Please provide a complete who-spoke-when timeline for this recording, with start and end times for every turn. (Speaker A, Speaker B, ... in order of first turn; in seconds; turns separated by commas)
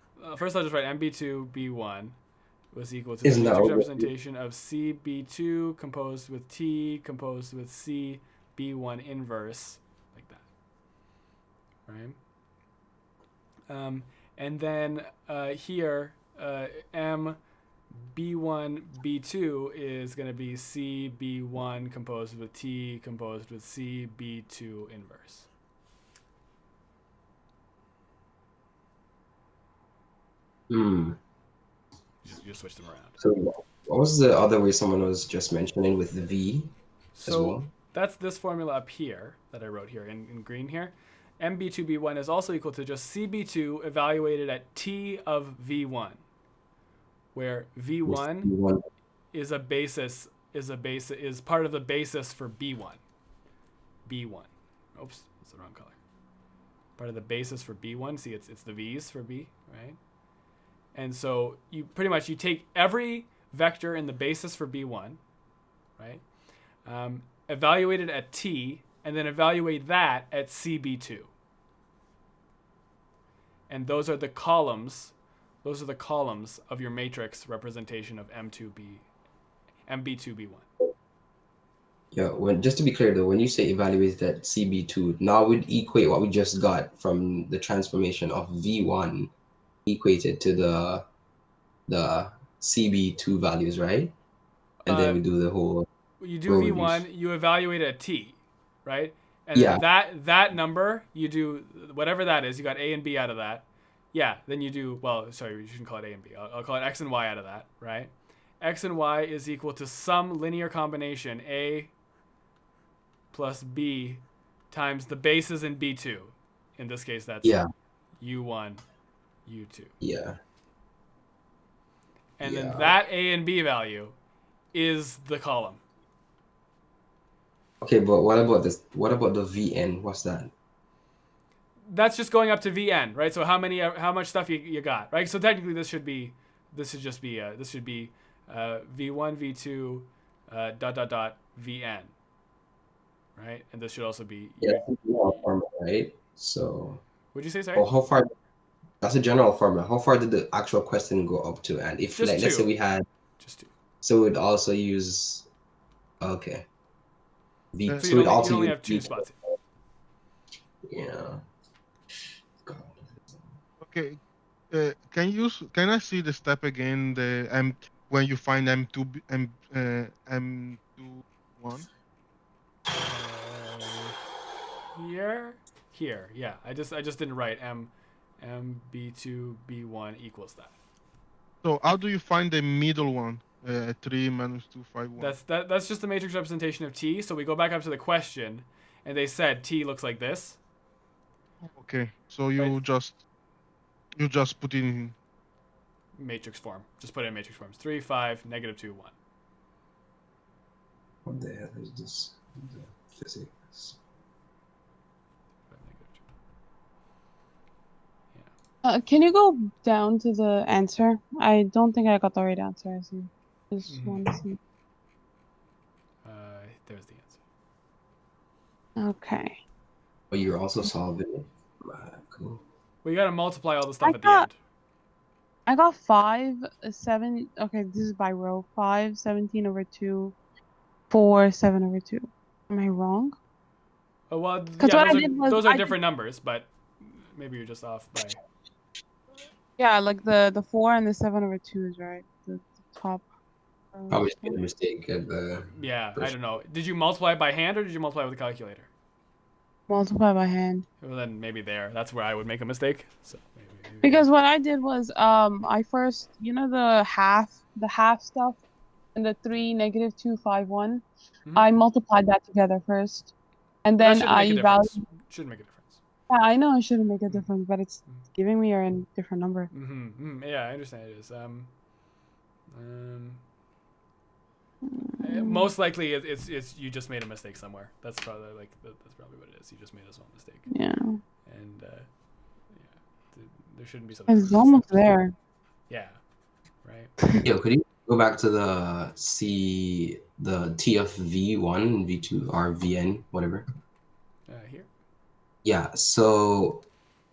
Speaker A: 0.2-2.2, Speaker A: 2.7-10.4, Speaker B: 3.2-4.1, Speaker A: 11.8-12.2, Speaker A: 13.7-17.4, Speaker A: 18.0-25.5, Speaker B: 30.7-31.2, Speaker A: 32.2-33.2, Speaker B: 33.2-36.7, Speaker A: 37.1-46.2, Speaker B: 37.2-37.7, Speaker A: 47.3-48.5, Speaker B: 48.0-48.8, Speaker A: 49.3-53.0, Speaker A: 54.0-56.0, Speaker A: 57.0-60.0, Speaker A: 60.9-65.2, Speaker A: 66.0-66.2, Speaker A: 66.8-71.3, Speaker A: 73.7-79.0, Speaker A: 79.8-80.7, Speaker B: 82.1-89.3, Speaker B: 89.8-91.0, Speaker B: 91.9-94.1, Speaker A: 94.8-95.2, Speaker B: 94.9-95.9, Speaker A: 96.2-111.9, Speaker B: 96.5-97.1, Speaker B: 99.5-99.8, Speaker A: 113.3-117.6, Speaker A: 118.2-118.8, Speaker A: 119.4-119.9, Speaker B: 120.0-120.4, Speaker A: 122.4-124.1, Speaker B: 122.4-123.0, Speaker A: 124.7-125.8, Speaker B: 127.8-130.5, Speaker A: 131.9-142.1, Speaker A: 143.3-144.8, Speaker B: 144.6-147.0, Speaker A: 147.3-147.9, Speaker B: 147.7-148.3, Speaker B: 149.0-153.1, Speaker A: 152.2-152.7, Speaker A: 153.4-153.7, Speaker B: 154.0-155.5, Speaker B: 156.2-156.7, Speaker B: 157.7-159.5, Speaker C: 157.9-158.2, Speaker A: 157.9-159.3, Speaker B: 160.8-161.4, Speaker B: 162.6-163.4, Speaker C: 163.8-164.2, Speaker C: 164.7-171.9, Speaker A: 173.0-174.2, Speaker A: 174.9-180.7, Speaker C: 181.6-185.3, Speaker A: 185.2-190.6, Speaker C: 191.7-193.2, Speaker C: 194.2-195.2, Speaker A: 196.2-199.1, Speaker B: 201.2-204.0, Speaker A: 205.7-206.2, Speaker D: 208.8-214.6, Speaker A: 213.9-214.2, Speaker A: 216.2-217.4, Speaker D: 219.0-219.6, Speaker B: 220.3-222.6, Speaker A: 223.0-224.6, Speaker D: 224.0-224.5, Speaker D: 225.7-230.3, Speaker D: 231.1-233.3, Speaker A: 234.3-238.4, Speaker D: 234.8-235.9, Speaker D: 239.8-243.2, Speaker D: 243.9-244.7, Speaker B: 244.1-246.4, Speaker A: 245.7-248.9, Speaker D: 249.9-250.8, Speaker A: 251.0-254.2, Speaker D: 254.0-258.6, Speaker D: 259.1-261.0, Speaker D: 261.5-263.3, Speaker D: 263.8-265.0, Speaker A: 264.0-266.0, Speaker D: 266.3-269.7, Speaker A: 269.7-271.7, Speaker A: 272.7-273.4, Speaker D: 274.8-275.6, Speaker A: 275.2-280.7, Speaker D: 280.7-281.2, Speaker A: 281.4-282.1, Speaker A: 282.7-284.9, Speaker D: 284.3-285.3, Speaker A: 285.9-286.2, Speaker A: 286.8-287.1, Speaker B: 287.4-293.6, Speaker A: 294.5-294.9, Speaker B: 295.6-296.9